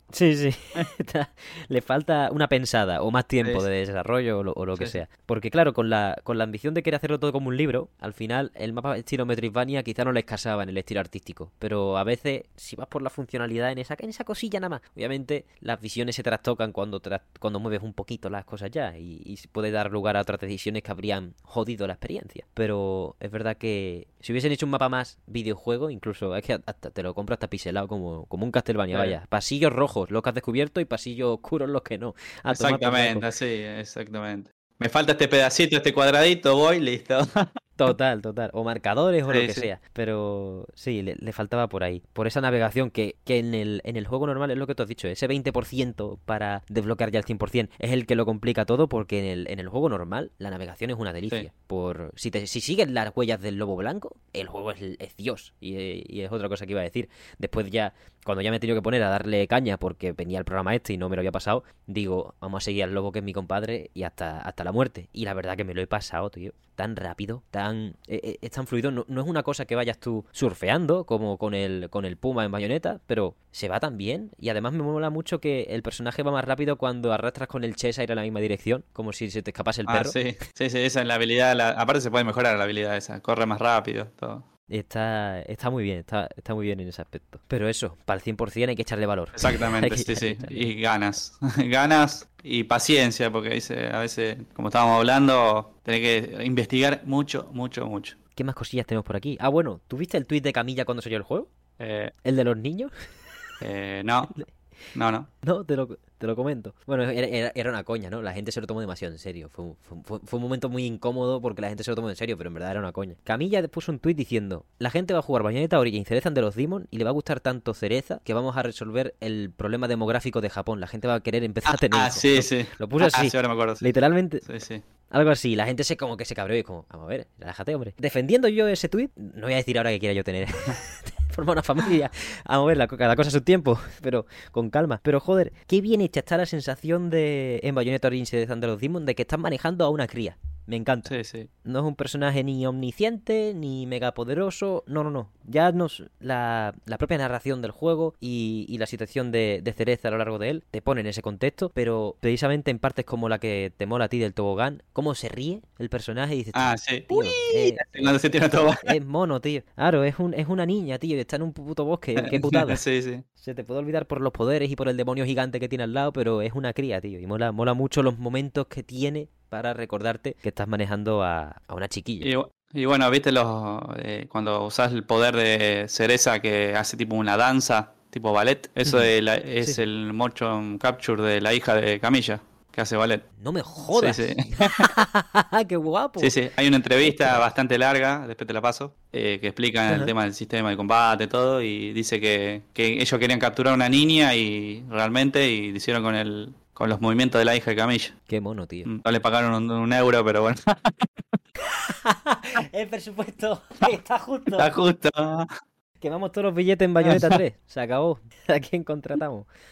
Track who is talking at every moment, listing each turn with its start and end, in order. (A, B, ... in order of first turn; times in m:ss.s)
0:00.1-0:33.2 A
0:32.5-0:37.5 B
0:37.8-1:20.2 A
0:39.3-0:39.7 B
1:19.9-1:24.4 B
1:24.7-1:30.7 A
1:29.4-1:38.2 B
1:38.4-1:41.5 A
1:41.8-1:42.1 B
1:42.2-1:42.9 A
1:43.6-1:44.4 B
1:44.9-1:45.3 B
1:45.4-2:04.4 A
2:01.7-2:03.8 B
2:04.4-2:04.8 B
2:05.1-2:42.8 A
2:21.1-2:21.5 B
2:36.5-2:38.9 B
2:42.2-2:43.2 B
2:43.4-2:52.3 A
2:52.2-3:03.2 B
3:03.4-3:06.3 A
3:03.9-3:04.9 B
3:06.2-3:18.1 B
3:07.0-3:07.4 A
3:18.3-3:18.9 A
3:18.8-3:21.1 B
3:21.6-3:24.7 A
3:24.6-3:25.5 B
3:26.0-3:29.5 A
3:27.0-3:27.4 B